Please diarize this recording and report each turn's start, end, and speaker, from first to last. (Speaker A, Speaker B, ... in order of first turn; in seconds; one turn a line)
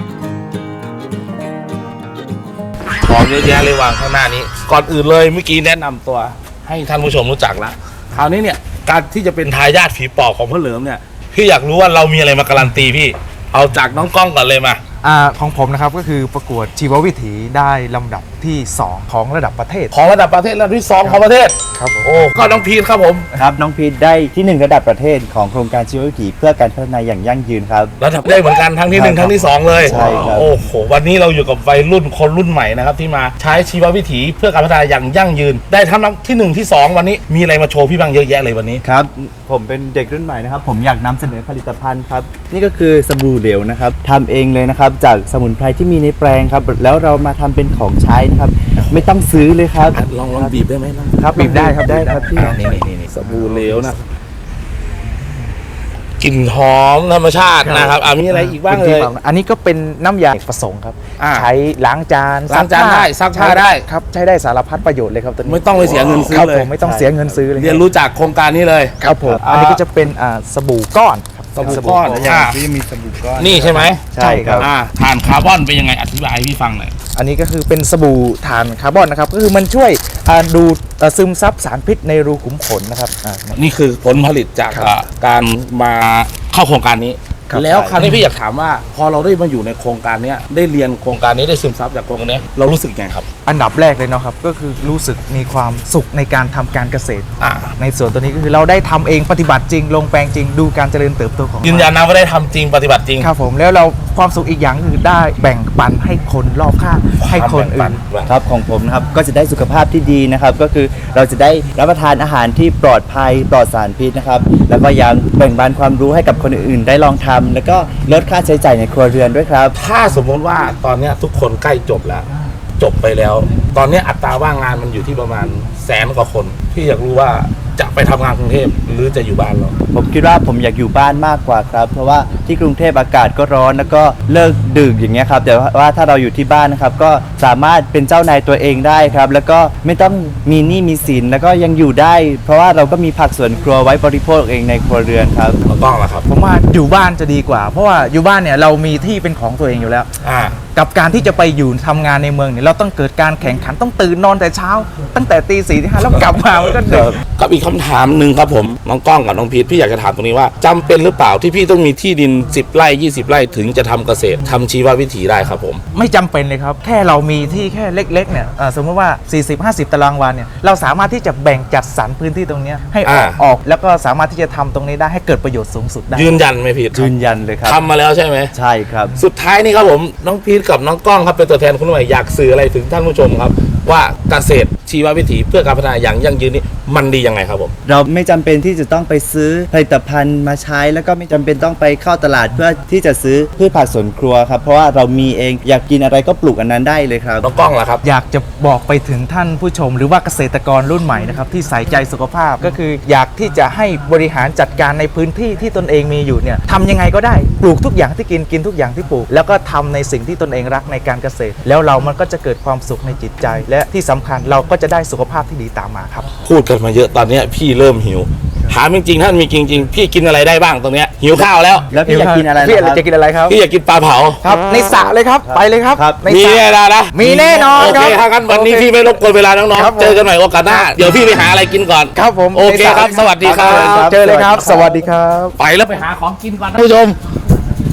Speaker A: 3.0-14.8
Speaker B: 15.0-19.9
Speaker A: 19.9-23.2
Speaker B: 21.8-22.6
Speaker C: 23.4-27.9
Speaker A: 28.0-38.8
Speaker C: 28.9-30.6
Speaker B: 29.9-30.3
Speaker C: 38.8-50.6
Speaker A: 49.9-51.6
Speaker C: 51.2-52.8
Speaker B: 51.2-54.0
Speaker A: 52.4-54.0
Speaker A: 56.2-59.1
Speaker B: 57.6-67.8
Speaker A: 61.2-61.5
Speaker A: 62.5-63.9
Speaker A: 65.5-66.7
Speaker C: 65.8-67.4
Speaker A: 67.5-69.8
Speaker B: 69.0-72.3
Speaker C: 69.2-69.8
Speaker A: 71.5-72.6
Speaker C: 71.6-74.7
Speaker A: 73.4-76.9
Speaker B: 74.2-74.7
Speaker B: 77.2-83.6
Speaker A: 83.6-93.3
Speaker B: 87.5-88.2
Speaker C: 87.5-88.0
Speaker B: 93.5-101.9
Speaker A: 97.4-97.7
Speaker A: 101.6-103.3
Speaker B: 103.2-108.0
Speaker A: 107.2-108.3
Speaker C: 108.2-119.8
Speaker A: 119.8-122.3
Speaker A: 122.8-129.8
Speaker C: 129.9-145.6
Speaker A: 145.7-146.3
Speaker B: 146.3-150.1
Speaker A: 150.2-150.6
Speaker B: 150.7-157.2
Speaker A: 156.1-165.8
Speaker B: 165.9-176.4
Speaker A: 173.1-173.4
Speaker A: 176.1-177.1
Speaker C: 176.9-177.8
Speaker A: 177.6-178.5
Speaker C: 178.5-179.2
Speaker A: 179.2-187.7
Speaker C: 187.8-197.8
Speaker A: 197.4-198.0
Speaker B: 198.0-216.4
Speaker A: 216.4-221.9
Speaker C: 221.9-223.0
Speaker B: 222.0-223.6
Speaker A: 223.5-224.4
Speaker B: 224.4-228.9
Speaker C: 225.4-226.2
Speaker A: 226.3-234.9
Speaker B: 229.8-231.3
Speaker B: 232.2-235.6
Speaker C: 233.0-234.9
Speaker A: 235.6-237.2